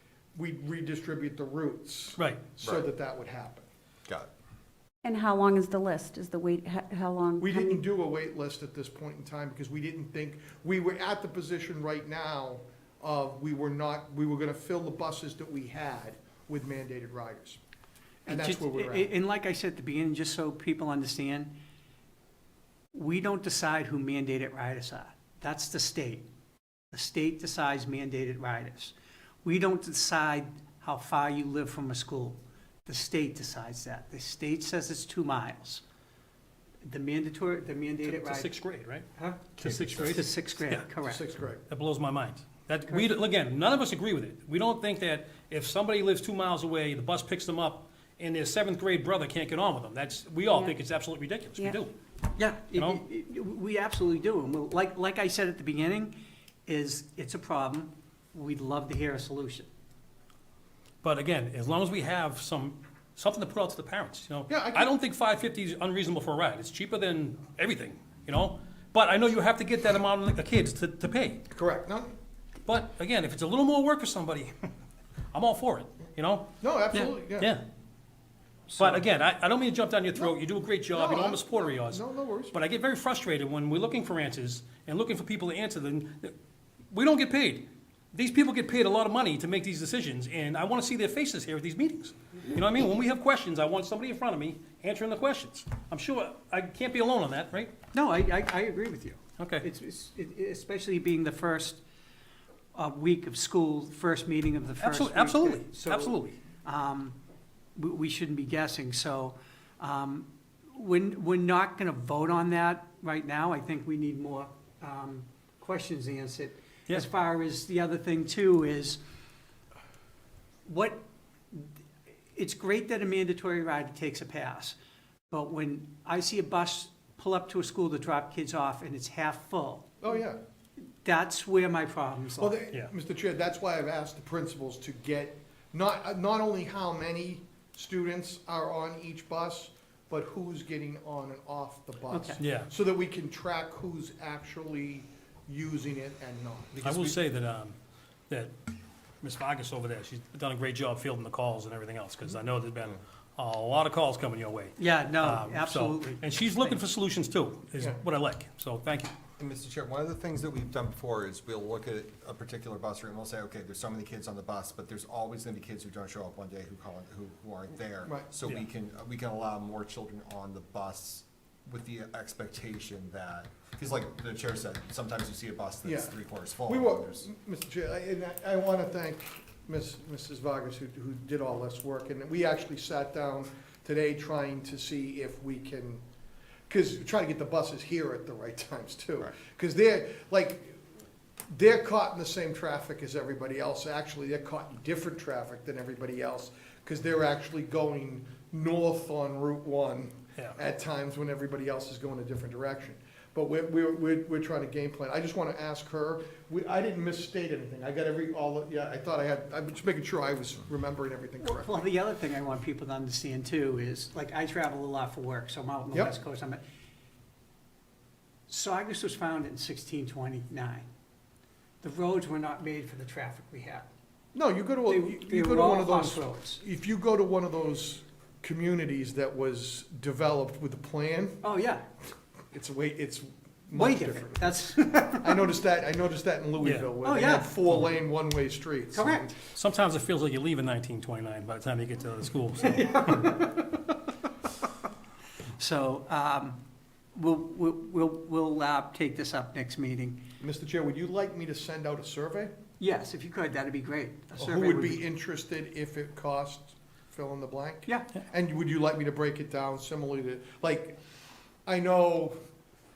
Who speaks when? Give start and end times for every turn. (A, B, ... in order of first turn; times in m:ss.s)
0:00.4-0:03.7 A
0:02.2-0:02.4 B
0:05.0-0:07.8 C
0:07.4-0:17.6 A
0:18.2-0:21.6 D
0:18.3-0:19.1 A
0:22.9-0:26.2 D
0:26.9-0:35.8 D
0:36.8-0:38.6 D
0:38.0-0:40.9 B
0:39.2-0:41.2 D
0:39.6-0:40.2 E
0:41.0-0:41.6 A
0:41.7-0:51.9 B
0:52.4-0:56.2 D
0:52.8-0:53.0 B
0:56.7-0:59.7 D
1:01.0-1:11.4 B
1:04.5-1:04.9 A
1:11.5-1:12.2 A
1:12.6-1:14.5 B
1:15.3-1:16.5 B
1:16.6-1:17.5 A
1:17.4-1:17.6 B
1:18.8-1:26.3 B
1:20.1-1:20.4 A
1:20.9-1:22.6 A
1:26.9-1:37.7 B
1:37.9-1:41.8 D
1:39.4-1:39.7 B
1:42.7-1:47.2 D
1:44.8-1:46.4 B
1:47.8-1:59.0 D
2:00.7-2:01.7 D
2:02.3-2:04.8 D
2:05.3-2:10.2 D
2:10.0-2:10.4 A
2:11.0-2:12.6 D
2:12.4-2:27.2 A
2:22.1-2:22.4 D
2:22.4-2:22.7 B
2:26.8-2:27.8 B
2:29.2-2:39.1 B
2:34.8-2:36.8 D
2:39.4-2:57.3 E
2:55.8-3:06.0 A
3:06.7-3:10.8 A
3:11.5-3:31.9 A
3:31.4-3:36.6 D
3:38.5-3:40.9 D
3:41.8-3:43.9 D
3:44.3-3:51.4 A
3:44.9-3:46.6 D
3:51.4-3:51.9 D
3:52.5-3:59.4 A
3:53.7-3:55.5 D
3:56.6-3:56.9 B
3:57.0-3:57.8 D
3:58.9-3:59.3 D
3:59.5-4:03.4 B
4:02.9-4:03.5 D
4:05.6-4:06.6 D
4:07.2-4:10.2 D
4:10.4-4:12.5 A
4:12.8-4:15.0 D
4:14.4-4:21.0 A
4:17.9-4:18.1 D
4:21.7-4:22.4 A